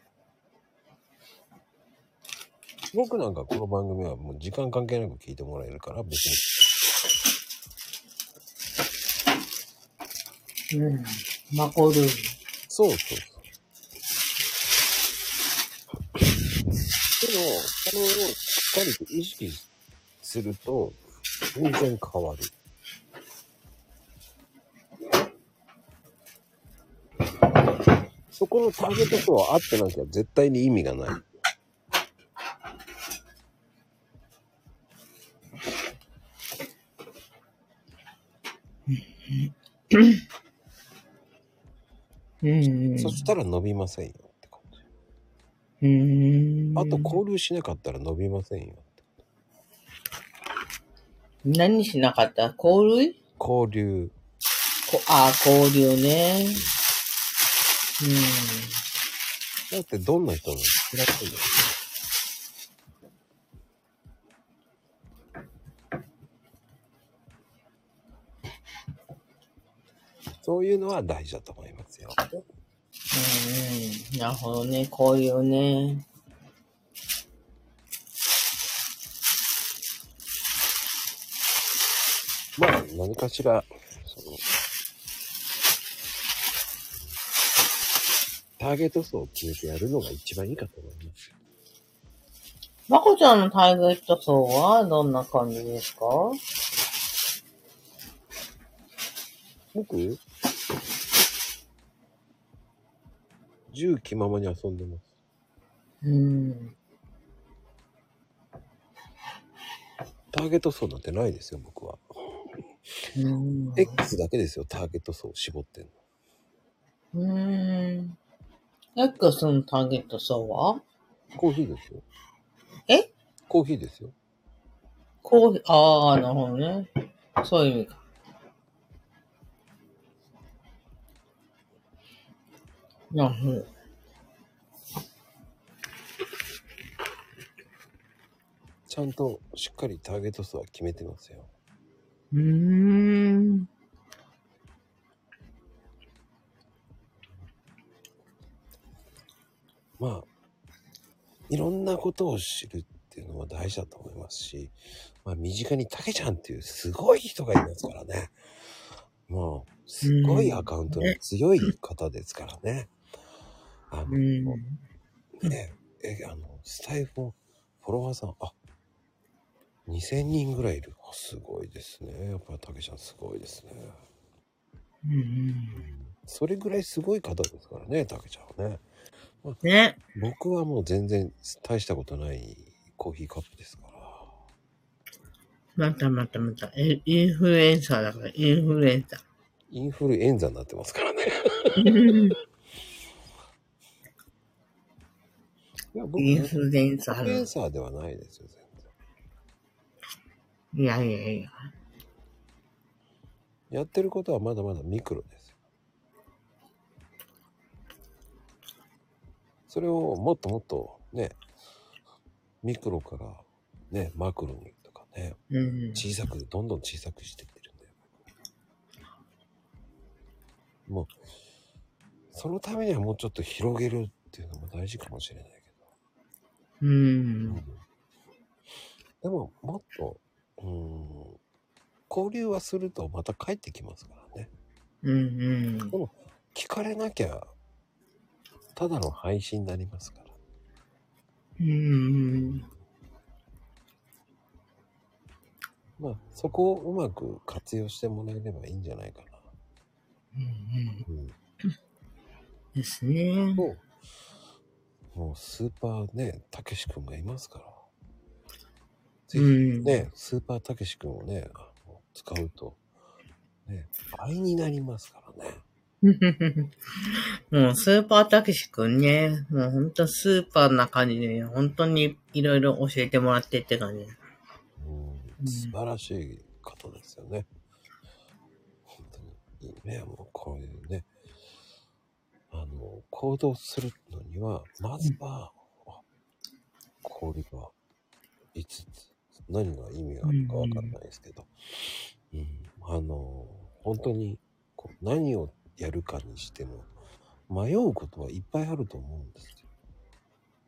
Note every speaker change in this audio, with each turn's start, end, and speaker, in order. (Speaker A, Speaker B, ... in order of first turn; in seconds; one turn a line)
Speaker A: 2.9-6.4
Speaker B: 10.7-12.3
Speaker A: 12.7-13.4
Speaker A: 17.2-19.7
Speaker A: 20.2-21.0
Speaker A: 21.5-22.5
Speaker A: 28.3-31.2
Speaker B: 38.9-40.2
Speaker B: 42.4-43.3
Speaker A: 42.9-44.8
Speaker B: 45.8-47.1
Speaker A: 46.8-49.0
Speaker B: 51.4-53.2
Speaker A: 53.4-54.1
Speaker B: 54.9-56.6
Speaker B: 58.0-58.8
Speaker A: 59.7-61.7
Speaker A: 70.4-72.3
Speaker B: 73.1-76.0
Speaker A: 82.6-84.4
Speaker A: 88.6-91.3
Speaker B: 92.9-96.4
Speaker A: 99.7-100.2
Speaker A: 103.7-105.0
Speaker B: 106.0-106.7
Speaker A: 110.3-112.0
Speaker B: 113.1-114.0
Speaker A: 113.8-115.9
Speaker B: 117.1-118.2
Speaker B: 119.0-120.8
Speaker A: 121.3-122.0
Speaker A: 123.5-124.1
Speaker B: 125.2-128.0
Speaker B: 133.1-133.7
Speaker A: 138.9-141.5
Speaker B: 142.3-143.7
Speaker A: 150.0-150.3
Speaker A: 151.5-158.3
Speaker A: 159.3-162.9
Speaker B: 160.0-161.7
Speaker A: 163.9-164.6
Speaker B: 164.1-164.8
Speaker A: 165.4-168.5
Speaker A: 169.8-174.0
Speaker B: 175.0-175.8
Speaker A: 175.7-178.8
Speaker B: 179.6-180.0
Speaker A: 180.1-184.3
Speaker B: 185.8-189.2
Speaker A: 189.7-192.2
Speaker B: 191.8-192.4
Speaker A: 195.9-198.9
Speaker B: 196.2-197.5
Speaker B: 200.7-201.6
Speaker A: 203.7-205.5
Speaker A: 209.7-211.4
Speaker A: 212.6-215.4
Speaker B: 215.5-216.0
Speaker A: 215.9-218.0
Speaker A: 220.9-221.1
Speaker A: 222.3-225.7
Speaker B: 226.8-227.6
Speaker A: 227.5-227.8
Speaker A: 229.2-231.4
Speaker A: 232.1-234.5
Speaker B: 235.0-235.9
Speaker A: 235.9-237.5
Speaker A: 238.8-240.3
Speaker B: 241.6-242.7
Speaker A: 246.0-249.5
Speaker B: 250.3-251.1
Speaker A: 251.1-251.3
Speaker B: 252.8-253.7
Speaker A: 253.6-253.8
Speaker A: 255.1-257.8
Speaker A: 259.3-262.8
Speaker B: 259.3-260.1
Speaker A: 263.6-265.6
Speaker B: 266.0-274.1
Speaker A: 274.8-277.5
Speaker B: 275.4-275.7
Speaker A: 278.9-281.1
Speaker A: 282.5-286.0
Speaker A: 287.0-287.7
Speaker A: 288.5-296.9
Speaker B: 290.2-290.9
Speaker A: 297.5-299.6